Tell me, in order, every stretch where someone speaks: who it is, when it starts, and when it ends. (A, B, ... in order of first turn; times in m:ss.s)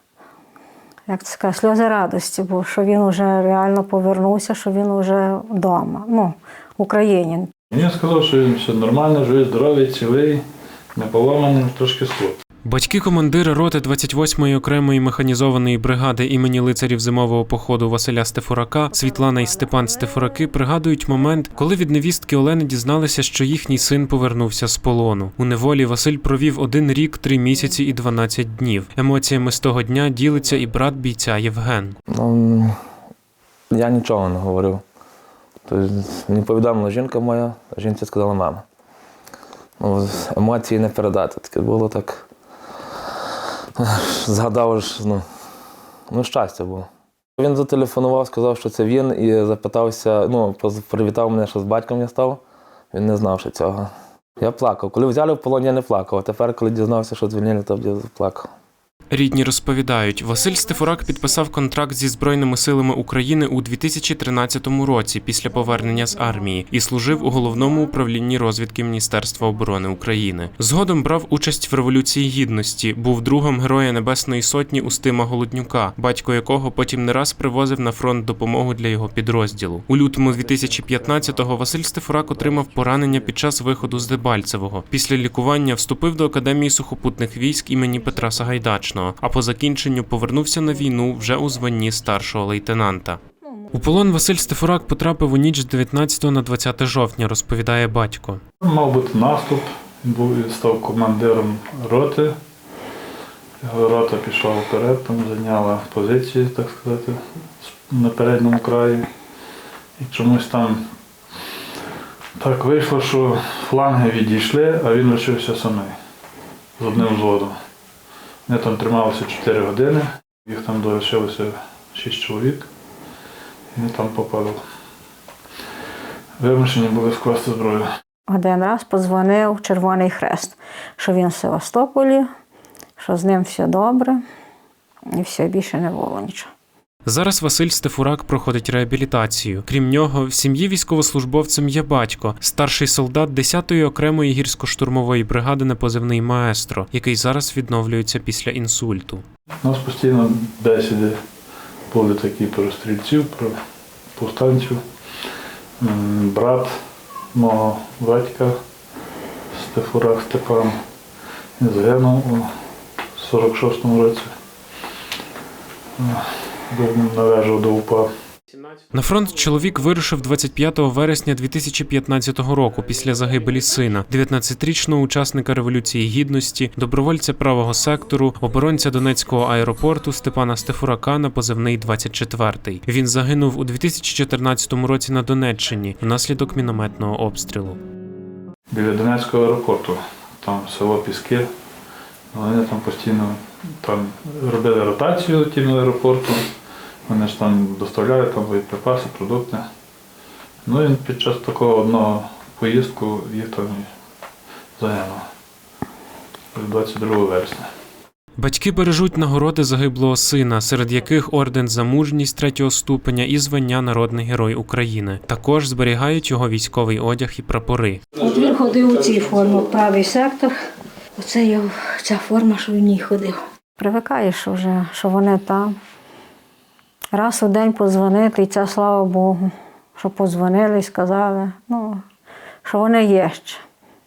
0:01.1-0:07.5 A
0:07.7-0:10.4 B
0:10.9-0:12.4 B
0:12.6-0:32.0 C
0:32.1-0:32.8 D
0:33.7-0:34.8 D
0:35.6-0:38.6 D
0:39.8-0:42.2 D
0:43.8-0:45.2 D
0:46.1-0:52.4 D
0:52.9-0:58.5 D
0:59.1-1:33.2 C
1:33.7-1:38.4 C
1:38.6-1:42.3 B
1:43.6-1:49.1 B
1:50.0-1:50.8 B
1:52.4-1:55.9 B
1:56.8-1:57.5 B
1:58.5-2:02.7 B
2:03.7-2:04.6 B
2:06.4-2:07.8 B
2:08.3-2:12.3 A
2:13.0-2:14.2 A
2:15.1-2:16.5 A
2:17.0-2:29.2 C
2:29.6-2:31.2 B
2:31.9-2:33.6 B
2:34.2-2:34.8 B
2:35.8-2:36.8 B
2:37.3-2:38.6 B
2:39.5-2:40.8 B
2:41.6-2:42.5 B
2:43.2-2:44.3 B
2:46.0-2:48.1 B
2:48.9-3:07.8 C
3:08.7-3:11.5 B
3:12.3-3:16.4 B
3:17.1-3:19.6 B
3:20.6-3:23.9 B
3:24.8-3:25.2 B
3:26.5-3:27.7 B
3:28.4-3:38.0 C
3:38.2-3:40.5 A
3:41.2-3:45.7 A
3:47.1-3:52.0 A
3:52.6-3:53.6 A